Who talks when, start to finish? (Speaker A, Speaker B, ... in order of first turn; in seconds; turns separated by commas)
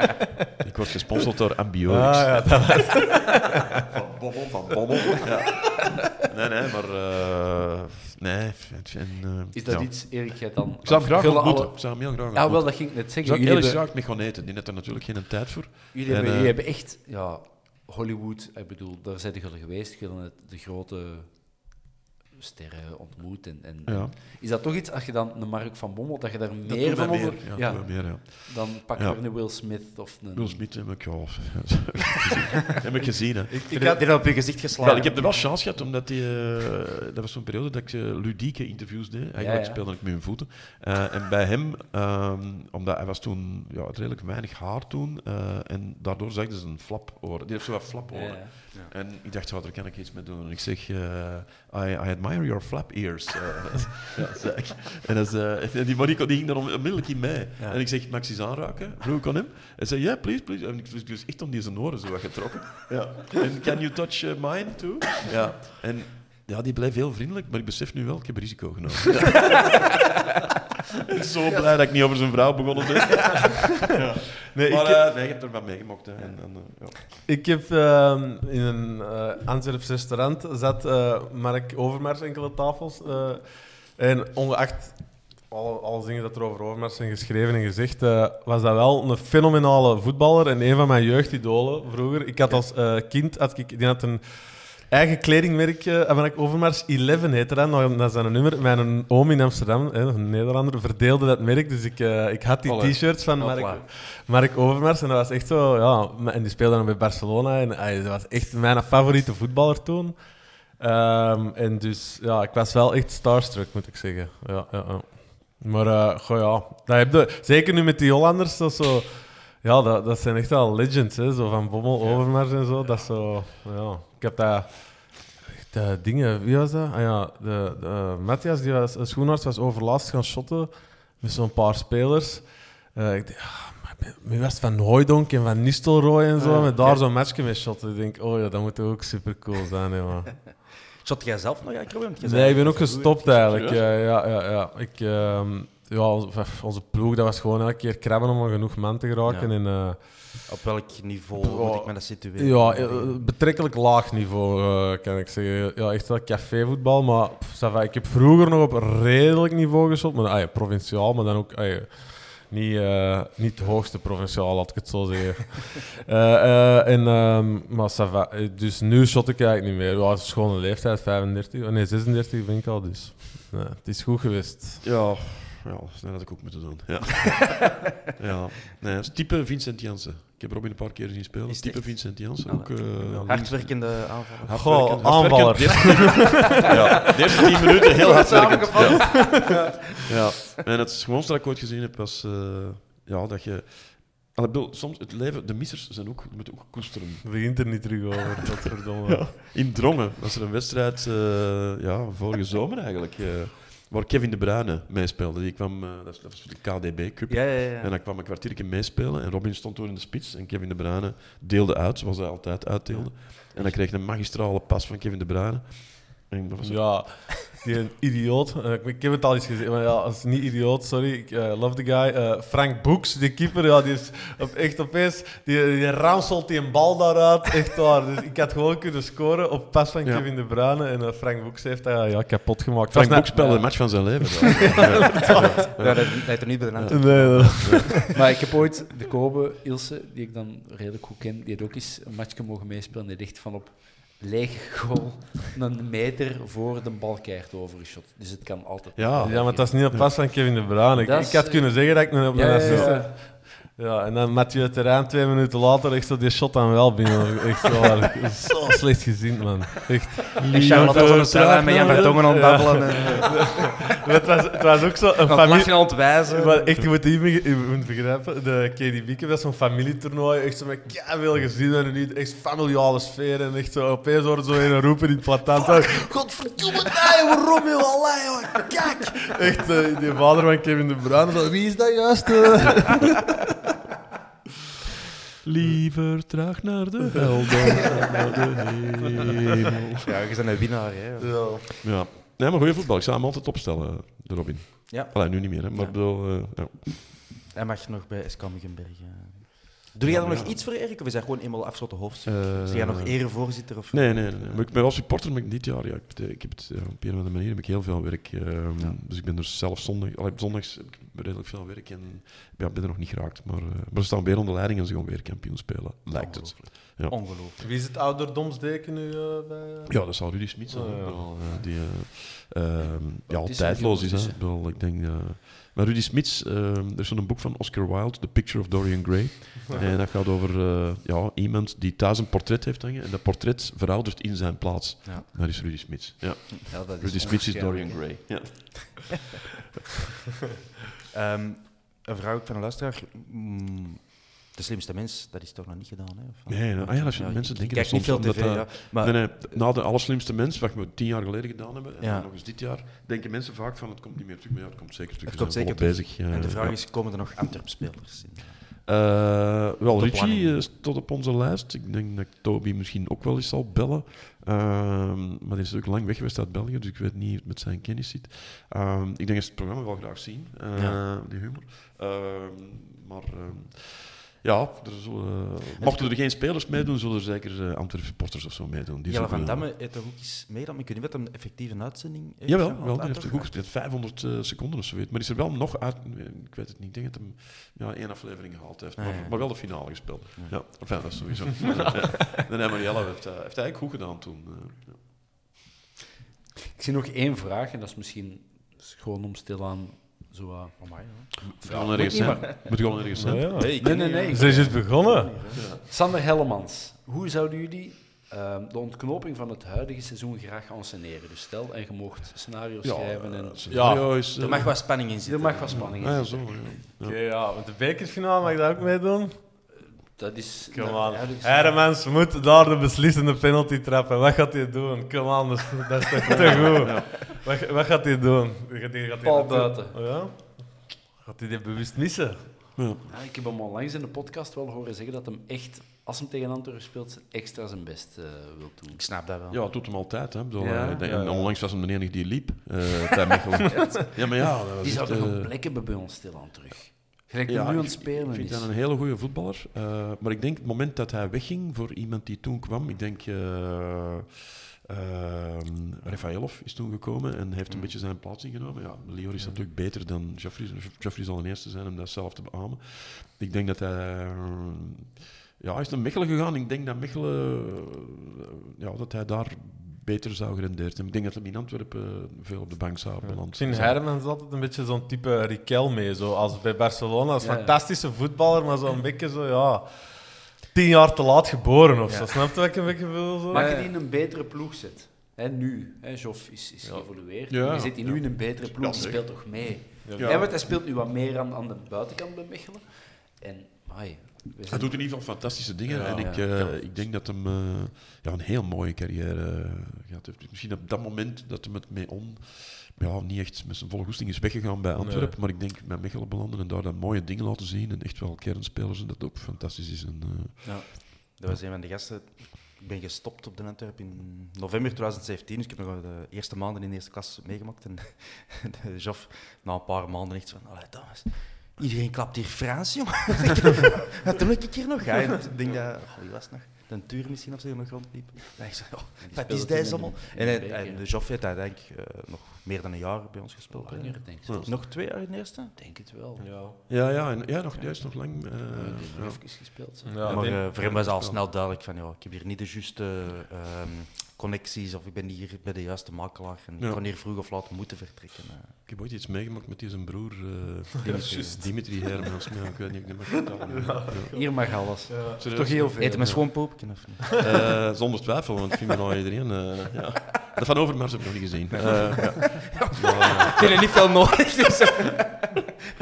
Speaker A: 0.6-3.1, Speaker B: 1.9-3.4, Speaker A: 3.9-16.6, Speaker C: 9.5-13.8, Speaker C: 15.9-30.7, Speaker A: 23.9-24.1, Speaker A: 26.6-69.9, Speaker B: 33.5-34.5, Speaker D: 33.7-35.6, Speaker C: 39.4-39.8, Speaker C: 48.1-48.5, Speaker D: 57.6-57.8, Speaker A: 71.1-77.1, Speaker B: 74.5-75.2, Speaker B: 77.2-140.4, Speaker A: 102.7-103.2, Speaker D: 103.3-103.8, Speaker D: 122.0-122.2, Speaker D: 136.4-137.0, Speaker D: 140.9-143.8, Speaker B: 142.2-150.5, Speaker A: 143.5-143.8, Speaker D: 149.2-153.2, Speaker B: 151.4-174.8, Speaker A: 174.8-197.8, Speaker D: 181.5-185.4, Speaker B: 184.6-186.3, Speaker C: 188.0-189.8, Speaker D: 188.0-189.3, Speaker B: 197.2-199.3, Speaker A: 199.0-217.2, Speaker D: 207.3-207.9, Speaker D: 212.9-213.8, Speaker B: 216.6-234.0, Speaker A: 230.0-230.3, Speaker A: 232.9-238.1, Speaker C: 233.3-234.2, Speaker C: 235.0-235.4, Speaker B: 235.1-235.6, Speaker D: 235.5-238.1, Speaker B: 236.9-238.1, Speaker C: 238.1-250.2, Speaker A: 248.9-250.1, Speaker B: 249.2-278.6, Speaker C: 250.9-253.1, Speaker A: 252.7-252.9, Speaker A: 260.4-262.8, Speaker D: 260.5-263.7, Speaker D: 265.2-266.8, Speaker D: 275.7-277.4, Speaker D: 278.6-279.1, Speaker B: 279.3-283.2, Speaker A: 285.4-289.8, Speaker D: 290.0-291.7, Speaker B: 291.2-291.6, Speaker A: 291.8-297.3, Speaker D: 294.9-296.6, Speaker D: 297.5-304.7, Speaker A: 300.0-300.6, Speaker A: 302.2-317.4, Speaker D: 316.1-317.6, Speaker B: 317.6-321.3, Speaker A: 319.9-339.3, Speaker C: 323.3-324.4, Speaker D: 335.0-336.0, Speaker C: 336.7-338.4, Speaker D: 341.1-349.7, Speaker A: 346.5-357.3, Speaker D: 352.0-352.3, Speaker D: 355.2-358.6, Speaker A: 358.8-379.7, Speaker D: 359.9-360.7, Speaker D: 370.7-371.0, Speaker D: 375.8-376.2, Speaker D: 379.1-383.7, Speaker A: 382.4-395.4, Speaker D: 389.0-391.2, Speaker C: 396.7-403.1, Speaker D: 400.8-405.7, Speaker A: 401.5-403.7, Speaker B: 403.1-405.3, Speaker C: 403.8-404.9, Speaker A: 405.6-405.8, Speaker C: 405.6-414.0, Speaker A: 412.8-415.1, Speaker B: 413.7-414.1, Speaker D: 414.1-416.3, Speaker C: 415.1-416.7, Speaker A: 415.7-417.2, Speaker B: 417.0-419.7, Speaker C: 420.0-421.8, Speaker B: 420.7-432.4, Speaker D: 420.8-421.4, Speaker A: 426.4-427.2, Speaker C: 429.2-430.2, Speaker A: 432.8-433.0, Speaker C: 433.1-439.0, Speaker D: 438.9-439.8, Speaker A: 439.5-445.5, Speaker C: 440.6-441.0, Speaker B: 441.0-441.6, Speaker C: 443.7-448.7, Speaker A: 447.4-474.0, Speaker D: 457.7-457.9, Speaker B: 473.2-483.7, Speaker C: 477.4-477.8, Speaker D: 482.1-482.9, Speaker D: 483.5-483.9, Speaker C: 483.5-497.0, Speaker B: 486.8-487.1, Speaker A: 487.5-490.7, Speaker B: 490.0-490.4, Speaker A: 494.7-511.0, Speaker B: 505.0-505.4, Speaker D: 510.6-535.8, Speaker C: 529.2-531.0, Speaker C: 533.7-535.1, Speaker C: 535.8-536.5, Speaker B: 536.4-536.8, Speaker A: 536.9-541.4, Speaker C: 538.7-540.3, Speaker B: 540.0-540.6, Speaker D: 540.2-548.8, Speaker A: 548.8-564.1, Speaker D: 551.0-552.2, Speaker B: 551.3-551.8, Speaker B: 553.7-556.5, Speaker C: 554.3-556.2, Speaker D: 556.0-557.5, Speaker D: 561.7-565.6